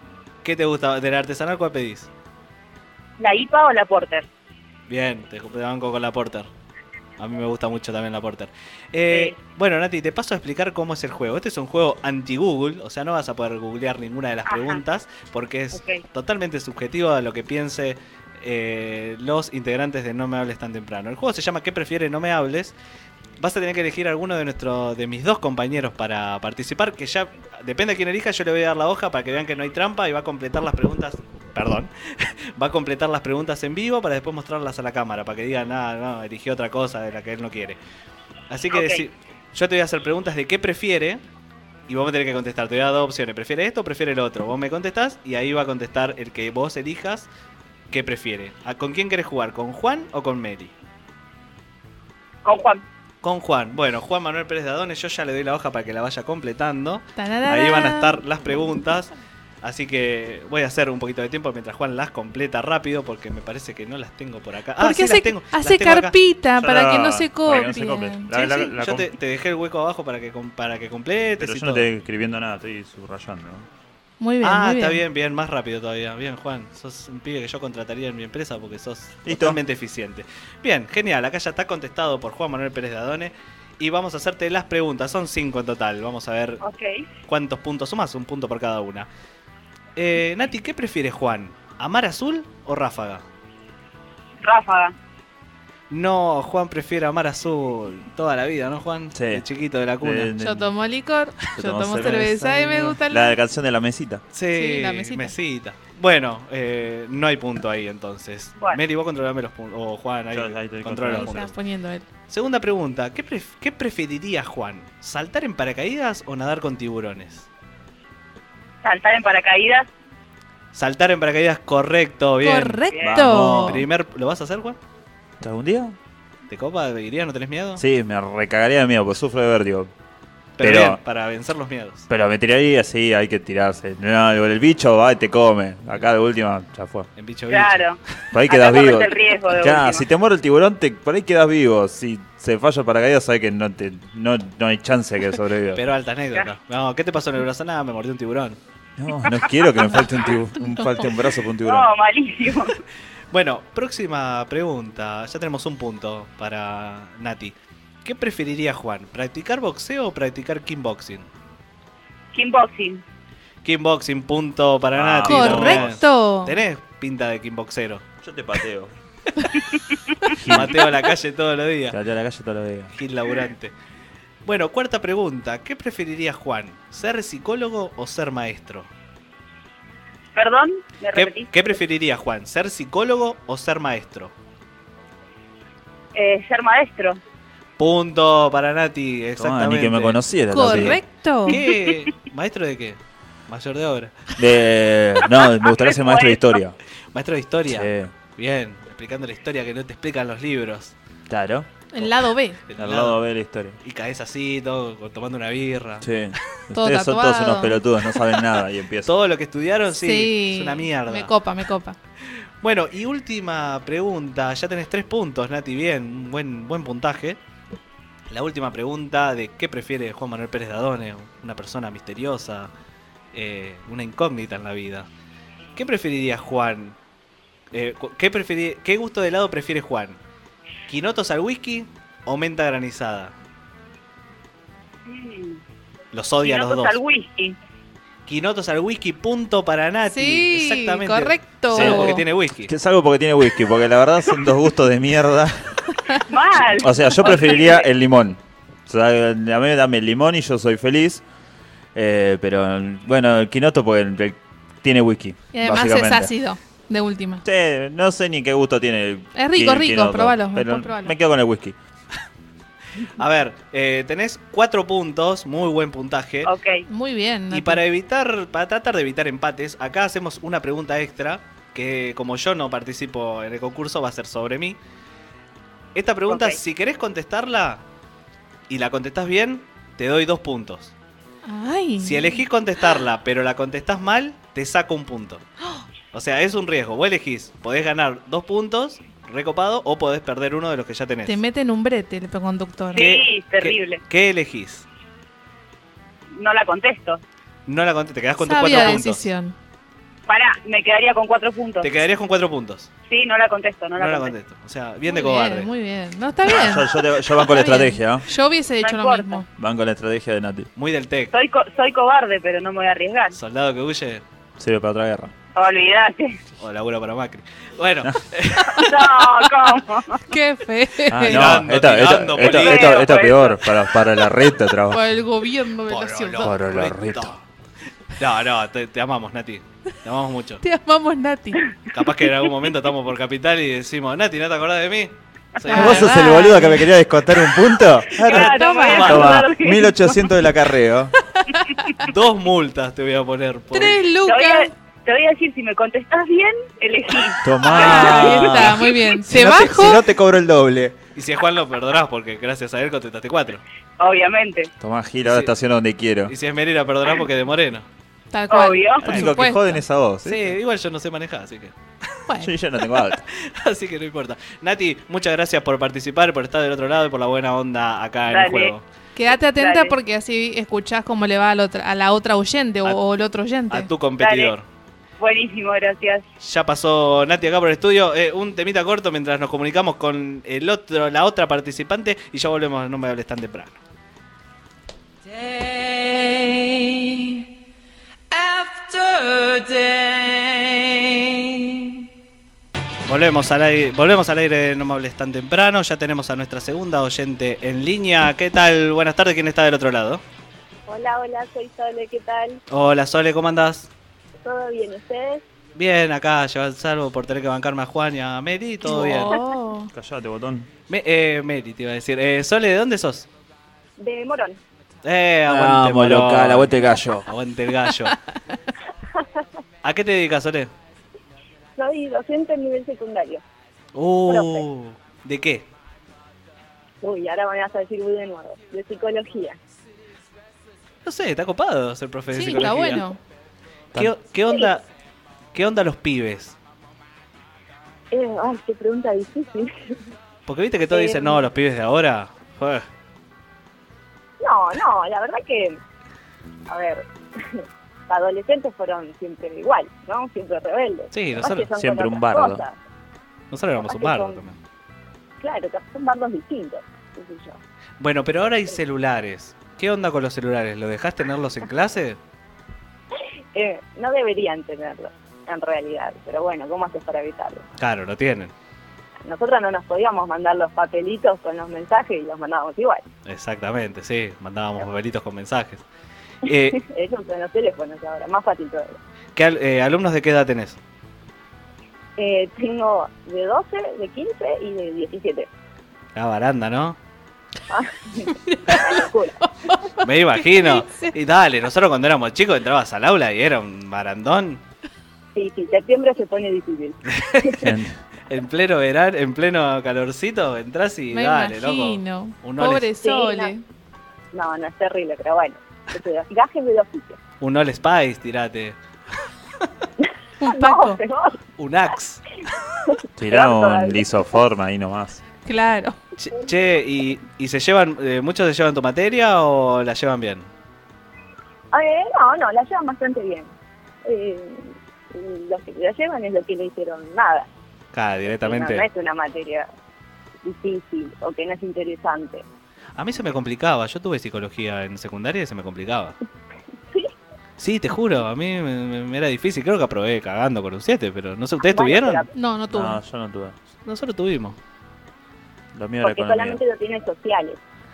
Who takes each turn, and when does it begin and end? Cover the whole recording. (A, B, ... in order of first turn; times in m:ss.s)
0:00.4-0:02.1 A
0:03.2-0:04.3 B
0:04.9-0:06.5 A
0:07.2-0:22.8 A
0:09.1-0:09.4 B
0:14.5-0:14.8 B
0:15.7-0:16.0 B
0:23.4-0:37.8 A
0:38.5-0:41.2 A
0:38.7-0:39.0 B
0:41.9-0:47.3 A
0:47.9-0:50.7 A
0:52.4-0:52.8 B
0:53.2-0:59.1 A
0:57.2-0:58.2 C
0:59.6-1:06.2 A
1:04.8-1:08.6 C
1:06.6-1:09.1 D
1:08.3-1:11.9 A
1:11.4-1:13.7 D
1:14.2-1:15.0 C
1:14.4-1:26.6 A
1:19.2-1:19.6 D
1:26.6-1:27.0 B
1:27.3-1:29.1 A
1:30.0-1:33.2 A
1:34.4-1:34.9 B
1:35.9-1:40.3 A
1:39.1-1:39.4 D
1:40.0-1:40.7 D
1:40.4-1:43.4 C
1:41.6-1:44.2 D
1:44.3-1:51.6 A
1:44.5-1:45.3 C
1:50.3-1:51.5 D
1:51.1-1:52.1 C
1:52.3-1:57.5 A
1:58.8-1:59.9 B
2:00.7-2:04.8 A
2:02.4-2:03.8 C
2:03.0-2:03.9 D
2:05.4-2:06.0 D
2:06.5-2:07.8 A
2:07.8-2:09.9 D
2:10.6-2:12.1 A
2:10.6-2:11.0 D
2:12.1-2:17.1 D
2:17.2-2:17.9 A
2:17.5-2:20.0 B
2:18.3-2:25.8 D
2:25.8-2:28.6 A
2:29.0-2:31.9 D
2:31.6-2:32.8 B
2:33.3-2:41.3 A
2:42.3-2:43.0 B
2:43.6-2:48.0 A
2:45.0-2:46.0 D
2:45.3-2:46.6 C
2:48.2-2:48.9 D
2:50.3-2:50.8 D
2:50.4-2:52.0 A
2:51.9-2:52.9 D
2:52.9-2:53.7 A
2:54.4-2:58.9 A
3:00.4-3:01.8 B
3:01.1-3:04.3 A
3:06.1-3:07.2 B
3:07.8-3:14.2 A
3:09.4-3:11.0 D
3:10.5-3:11.6 C
3:14.4-3:16.8 D
3:15.4-3:16.6 B
3:17.1-3:20.9 A
3:17.7-3:18.1 D
3:21.3-3:21.7 D
3:21.9-3:22.6 C
3:22.7-3:23.2 A
3:22.8-3:23.8 D
3:23.8-3:26.1 A
3:26.0-3:29.1 D
3:26.7-3:27.8 C
3:29.0-3:31.3 A
3:30.0-3:32.0 C
3:32.6-3:37.4 A
3:38.3-3:42.7 A
3:43.3-3:45.1 A
3:45.8-3:47.0 A
3:47.7-3:50.2 A
3:50.9-3:53.3 A
3:55.1-3:55.6 B
3:56.1-3:57.0 A
3:56.4-3:57.6 B
3:58.3-4:02.7 A
4:00.1-4:02.2 C
4:01.7-4:05.9 D
4:06.3-4:07.9 B
4:06.7-4:11.2 D
4:12.0-4:16.3 D
4:15.5-4:17.4 C
4:17.4-4:21.8 D
4:19.4-4:21.1 C
4:23.2-4:26.5 A
4:26.4-4:26.8 B
4:26.9-4:27.8 C
4:27.5-4:34.8 A
4:36.0-4:37.8 A
4:36.3-4:36.6 B
4:38.7-4:40.9 A
4:41.4-4:42.4 C
4:42.0-4:45.4 A
4:46.1-4:51.4 A
4:51.3-4:53.0 C
4:52.9-4:54.0 B
4:53.0-4:54.9 A
4:56.4-4:57.2 B
4:57.7-4:59.3 A
4:58.4-4:59.6 C
5:00.3-5:01.9 B
5:01.8-5:02.9 A
5:03.1-5:04.3 B
5:04.0-5:05.7 A
5:05.1-5:09.4 C
5:06.4-5:08.3 D
5:08.8-5:09.4 B
5:09.6-5:10.7 D
5:10.8-5:11.3 A
5:11.3-5:13.4 B
5:13.3-5:14.2 A
5:14.6-5:15.3 D
5:15.6-5:16.4 B
5:16.6-5:18.9 A
5:18.8-5:20.2 B
5:20.3-5:21.6 C
5:21.1-5:25.0 D
5:21.3-5:23.1 A
5:22.4-5:23.7 B
5:24.9-5:26.6 C
5:25.9-5:27.4 A
5:26.4-5:27.4 D
5:28.2-5:30.6 A
5:30.6-5:31.6 C
5:31.9-5:36.2 A
5:35.7-5:36.9 C
5:35.7-5:38.5 D
5:38.2-5:39.5 A
5:38.2-5:40.2 B
5:38.3-5:39.3 C
5:39.0-5:41.1 D
5:42.0-5:44.0 A
5:43.7-5:44.7 C
5:44.2-5:48.2 B
5:47.4-5:51.0 D
5:47.7-5:50.0 C
5:47.7-5:48.9 A
5:49.5-5:49.9 A
5:51.2-5:53.6 A
5:54.0-5:54.7 B
5:54.8-5:56.3 D
5:55.3-5:55.5 A
5:56.3-5:57.9 A
5:58.3-5:59.8 C
5:58.5-5:59.1 B
5:59.0-6:00.6 D
6:00.2-6:01.8 A
6:02.3-6:02.5 C
6:02.4-6:03.2 D
6:03.3-6:08.8 A
6:08.3-6:08.7 B
6:09.2-6:13.9 C
6:09.5-6:10.0 B
6:13.7-6:14.6 A
6:14.2-6:14.6 B
6:15.2-6:16.2 B
6:16.4-6:23.8 A
6:33.1-6:40.2 A
6:40.9-6:42.6 E
6:42.7-6:43.9 A
6:44.4-6:45.4 E
6:45.8-6:49.4 A
6:48.8-6:49.9 C
6:49.9-6:50.7 D
6:50.9-6:53.3 A
6:54.0-6:54.6 E
6:55.0-6:58.2 A
6:55.5-6:57.3 D
6:59.8-7:00.7 A
7:01.8-7:03.4 E
7:03.9-7:05.7 A
7:04.3-7:04.6 E
7:07.0-7:09.6 E
7:11.0-7:13.1 A
7:12.3-7:13.2 C
7:14.0-7:14.8 A
7:15.5-7:16.6 A
7:18.1-7:19.7 E
7:20.5-7:22.9 A
7:20.9-7:21.4 E
7:24.4-7:25.8 E
7:26.7-7:32.8 E
7:31.1-7:31.7 A
7:31.7-7:32.6 D
7:33.5-7:34.6 A
7:33.8-7:34.4 E
7:35.4-7:37.6 E
7:38.0-7:42.2 A
7:43.5-7:47.6 E
7:47.8-7:48.5 A
7:49.2-7:53.0 E
7:53.3-7:55.8 A
7:56.4-7:56.8 A
7:56.7-7:59.0 E
7:59.4-8:00.8 A
8:02.2-8:05.5 E
8:06.2-8:07.0 A
8:07.7-8:09.4 E
8:08.5-8:11.1 C
8:10.0-8:14.6 A
8:15.4-8:17.6 E
8:17.1-8:17.7 A
8:17.6-8:18.0 D
8:18.3-8:22.9 A
8:21.1-8:23.6 C
8:23.0-8:23.5 E
8:24.3-8:27.2 E
8:27.4-8:28.8 A
8:30.0-8:31.4 E
8:30.4-8:31.0 C
8:31.6-8:32.2 A
8:32.9-8:34.0 E
8:33.2-8:35.2 D
8:35.5-8:36.0 C
8:36.2-8:40.5 A
8:41.7-8:43.5 E
8:44.0-8:47.5 E
8:47.9-8:48.9 A
8:48.4-8:49.7 E
8:50.4-8:52.4 E
8:53.0-8:56.2 A
8:57.6-9:02.2 A
9:01.6-9:02.3 E
9:02.3-9:03.0 C
9:02.7-9:03.6 D
9:03.8-9:04.6 A
9:05.7-9:06.6 D
9:06.0-9:07.6 E